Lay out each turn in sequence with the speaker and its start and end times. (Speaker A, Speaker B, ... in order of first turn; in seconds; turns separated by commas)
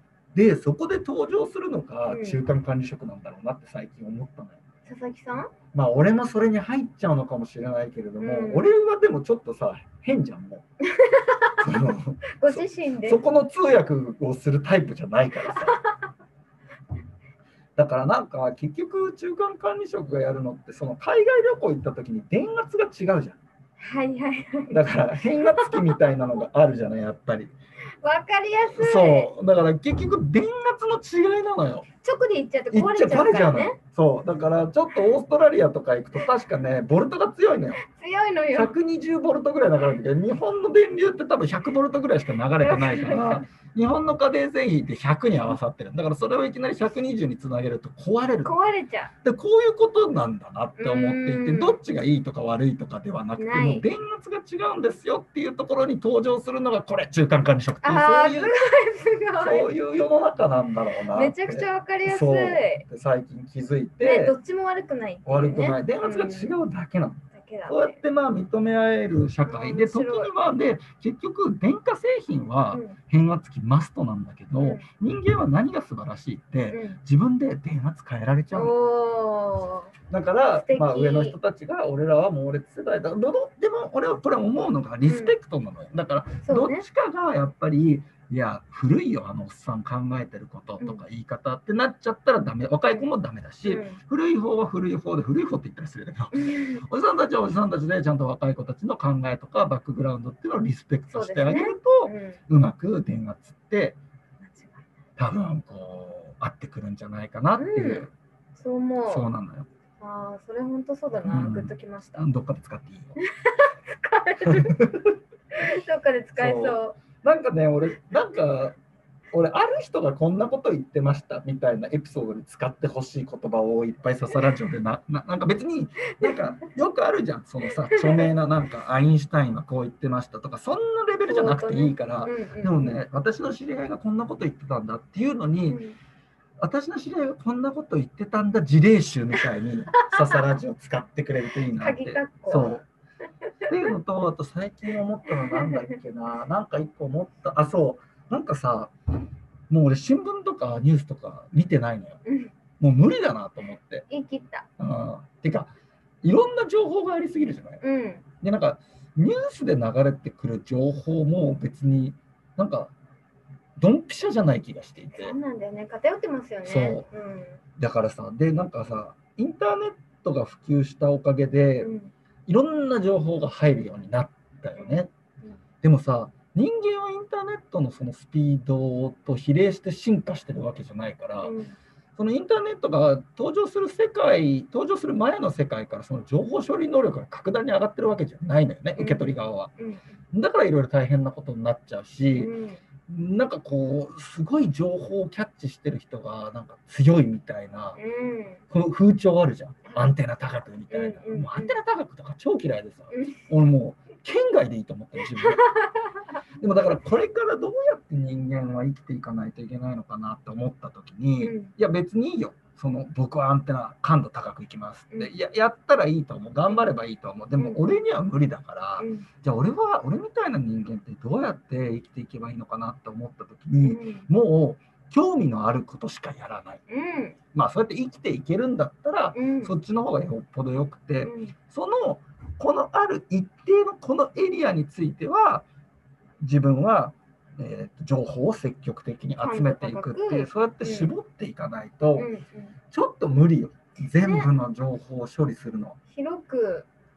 Speaker A: 0.3-4.6, Speaker B: 2.1-2.4, Speaker B: 4.8-5.5, Speaker A: 5.7-10.6, Speaker B: 8.2-8.7, Speaker B: 10.9-11.6, Speaker A: 11.6-15.8, Speaker B: 12.4-13.2, Speaker B: 15.5-16.0, Speaker A: 17.8-23.4, Speaker B: 23.8-26.3, Speaker A: 24.7-27.5, Speaker B: 28.0-29.3, Speaker A: 28.8-31.9, Speaker B: 32.0-33.8, Speaker A: 32.7-37.8, Speaker B: 37.8-38.7, Speaker A: 38.5-48.5, Speaker B: 42.6-43.4, Speaker B: 48.4-49.1, Speaker A: 49.2-58.5, Speaker B: 50.8-51.8, Speaker B: 53.4-53.8, Speaker B: 57.8-59.7, Speaker A: 59.4-64.3, Speaker B: 61.1-62.8, Speaker B: 64.0-66.5, Speaker A: 65.2-78.7, Speaker B: 67.3-68.0, Speaker B: 69.5-70.3, Speaker B: 74.6-74.8, Speaker B: 76.7-77.0, Speaker B: 78.5-79.9, Speaker A: 80.1-104.0, Speaker B: 80.5-81.4, Speaker B: 85.0-85.3, Speaker B: 86.4-86.8, Speaker B: 93.6-94.0, Speaker B: 96.3-96.8, Speaker B: 101.1-102.4, Speaker B: 104.4-104.8, Speaker A: 105.2-108.1, Speaker B: 107.6-109.3, Speaker A: 109.1-109.7, Speaker B: 110.0-112.2, Speaker A: 111.2-113.2, Speaker B: 113.2-114.7, Speaker A: 114.4-115.2, Speaker B: 115.5-117.0, Speaker A: 116.3-118.8, Speaker A: 119.3-135.8, Speaker B: 127.9-128.3, Speaker B: 131.2-133.0, Speaker B: 135.7-136.0, Speaker A: 136.6-142.8, Speaker B: 140.1-140.4, Speaker B: 141.7-142.8, Speaker A: 143.7-148.9, Speaker B: 145.3-145.8, Speaker A: 149.7-152.2, Speaker B: 152.2-152.5, Speaker A: 152.8-154.1, Speaker B: 154.1-154.7, Speaker A: 154.8-155.7, Speaker A: 156.2-157.8, Speaker B: 157.8-158.2, Speaker A: 158.4-162.9, Speaker A: 163.8-165.3, Speaker B: 165.1-167.6, Speaker A: 166.6-167.0, Speaker A: 167.8-171.9, Speaker B: 171.8-172.1, Speaker A: 172.5-175.1, Speaker B: 174.8-175.6, Speaker A: 175.8-181.5, Speaker B: 181.4-181.7, Speaker A: 182.2-189.7, Speaker B: 188.9-190.0, Speaker A: 190.3-192.5, Speaker B: 192.4-192.8, Speaker A: 193.1-198.0, Speaker B: 197.9-198.6, Speaker A: 198.7-205.6, Speaker B: 200.9-201.8, Speaker B: 203.1-203.5, Speaker B: 205.3-206.2, Speaker A: 206.6-226.8, Speaker B: 211.4-211.7, Speaker B: 217.6-218.0, Speaker B: 219.0-219.3, Speaker B: 223.8-224.3, Speaker B: 226.9-227.4, Speaker A: 227.5-235.7, Speaker B: 229.3-229.7, Speaker B: 231.2-231.5, Speaker A: 236.4-242.3, Speaker B: 239.4-241.1, Speaker B: 242.2-242.7, Speaker A: 242.9-246.0, Speaker B: 244.2-244.5, Speaker B: 246.1-246.9